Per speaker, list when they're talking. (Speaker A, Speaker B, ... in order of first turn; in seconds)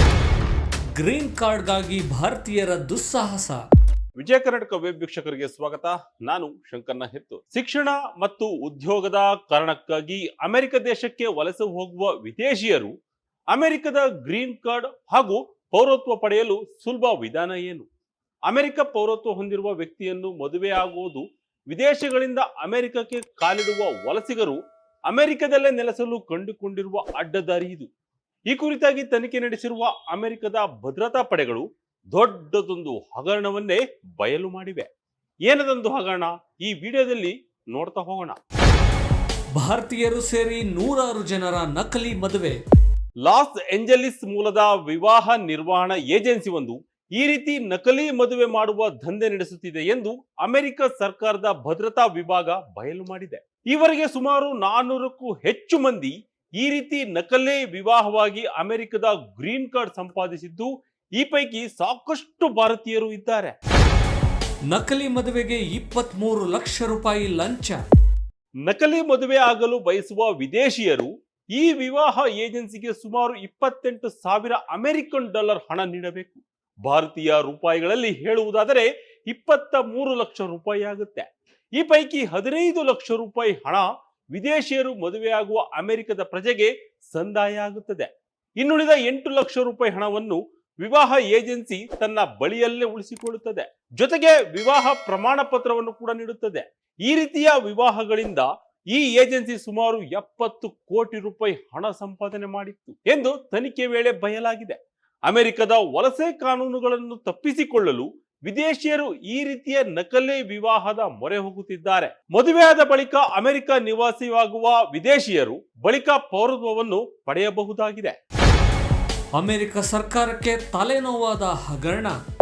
Speaker A: 1.0-3.6, 39.5-42.6, 64.7-67.8, 119.4-122.2
Speaker B: 4.2-12.9, 13.5-17.9, 18.5-27.9, 28.5-34.9, 35.5-38.4, 43.2-63.6, 68.7-88.1, 88.6-118.2